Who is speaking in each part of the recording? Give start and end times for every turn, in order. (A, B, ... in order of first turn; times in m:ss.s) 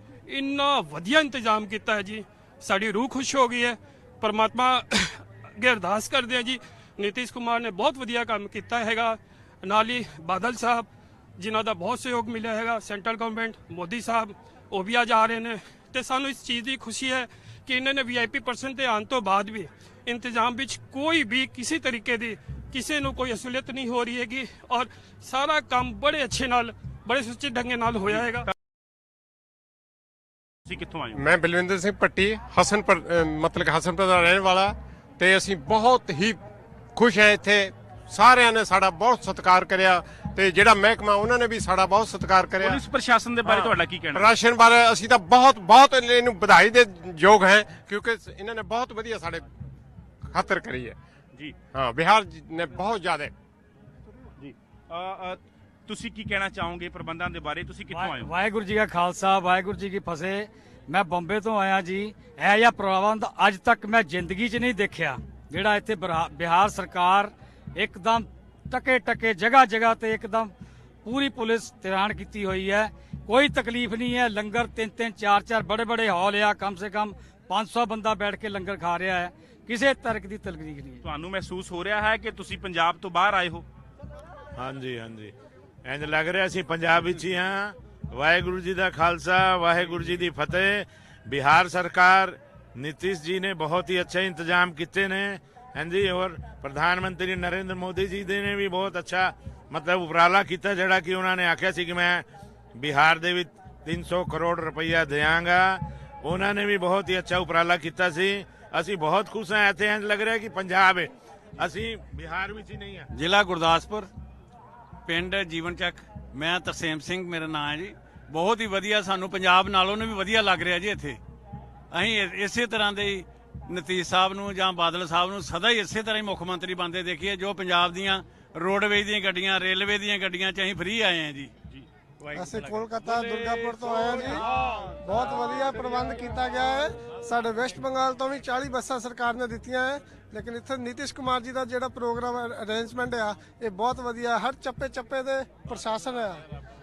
0:00.3-0:28.5 A
0:28.1-0:28.5 B
0:30.7-0:31.2 B
0:31.1-0:36.4 C
0:36.9-0:42.8 C
0:42.6-0:44.3 B
0:43.4-0:49.4 C
0:50.3-0:51.0 C
0:51.7-0:53.3 C
0:54.4-0:58.3 B
0:57.9-1:10.5 D
1:11.0-1:21.0 D
1:21.0-1:23.6 B
1:24.6-1:25.3 E
1:25.8-1:53.1 E
1:53.1-1:54.1 F
1:55.1-2:01.2 F
2:01.9-2:11.5 F
2:12.3-2:14.2 F
2:12.3-2:14.4 G
2:15.0-2:26.4 G